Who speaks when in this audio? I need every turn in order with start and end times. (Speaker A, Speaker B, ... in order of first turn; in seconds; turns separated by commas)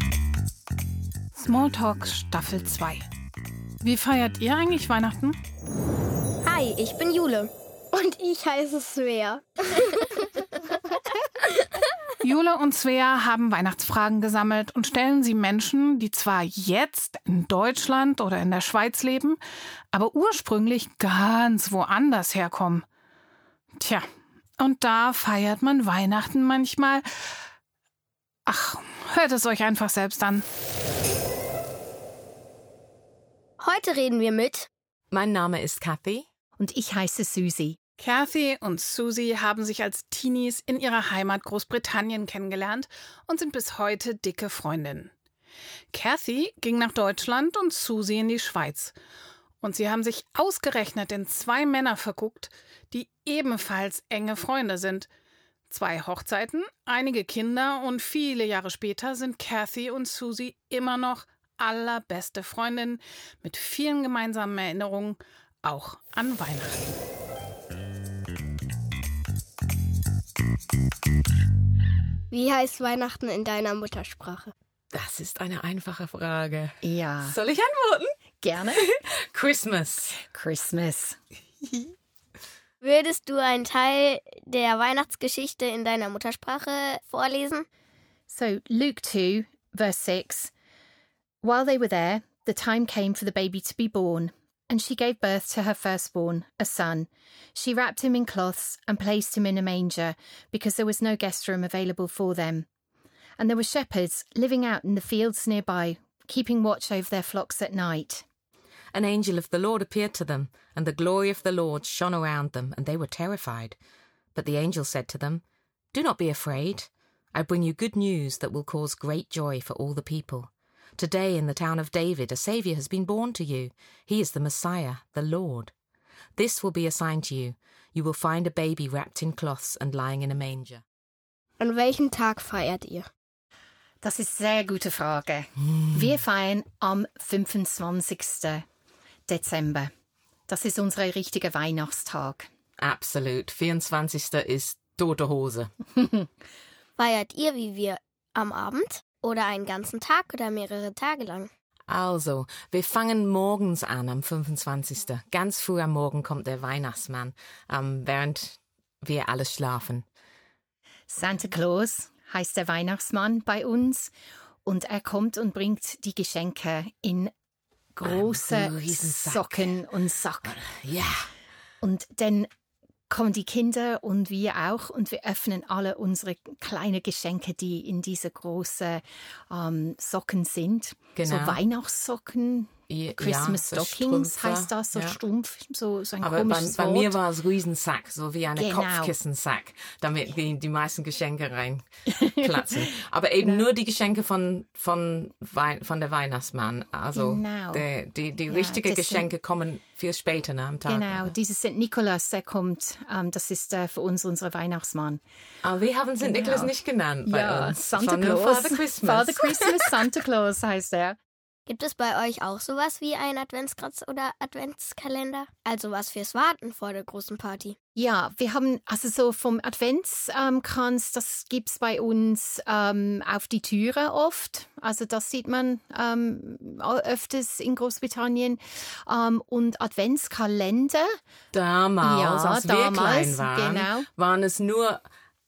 Speaker A: 1.4-3.0, Speaker A: 3.8-5.4, Speaker B: 6.4-10.9, Speaker A: 12.2-19.4, Speaker A: 19.9-22.8, Speaker A: 23.8-24.1, Speaker A: 24.6-27.0, Speaker A: 28.4-30.4, Speaker B: 33.6-34.7, Speaker C: 35.1-36.3, Speaker D: 36.6-37.8, Speaker A: 38.0-45.1, Speaker A: 45.9-48.9, Speaker A: 49.6-55.1, Speaker A: 55.7-66.8, Speaker B: 72.3-74.5, Speaker C: 74.9-78.1, Speaker D: 76.8-77.3, Speaker D: 78.4-78.8, Speaker C: 78.7-80.1, Speaker D: 80.1-81.2, Speaker B: 82.8-87.7, Speaker D: 88.3-90.5, Speaker D: 91.4-102.7, Speaker D: 103.4-108.2, Speaker C: 108.9-113.8, Speaker C: 114.3-125.7, Speaker C: 126.3-130.8, Speaker B: 131.6-133.1, Speaker D: 134.0-138.7, Speaker D: 139.3-139.9, Speaker D: 140.5-142.5, Speaker C: 142.8-145.7, Speaker B: 147.0-151.5, Speaker C: 151.9-160.1, Speaker D: 161.1-164.1, Speaker D: 164.6-167.3, Speaker D: 167.9-170.6, Speaker C: 168.0-169.7, Speaker C: 170.4-171.3, Speaker D: 171.8-172.5, Speaker D: 173.1-187.2, Speaker C: 181.2-181.6, Speaker C: 182.9-185.2, Speaker C: 186.2-201.3, Speaker D: 188.6-189.1, Speaker D: 192.1-192.9, Speaker D: 197.1-197.8, Speaker D: 198.5-199.3, Speaker D: 200.8-205.2, Speaker C: 205.6-209.9, Speaker D: 206.2-206.7, Speaker D: 207.2-211.2, Speaker B: 211.7-217.8, Speaker D: 217.9-231.2, Speaker C: 231.5-235.0, Speaker D: 232.0-234.1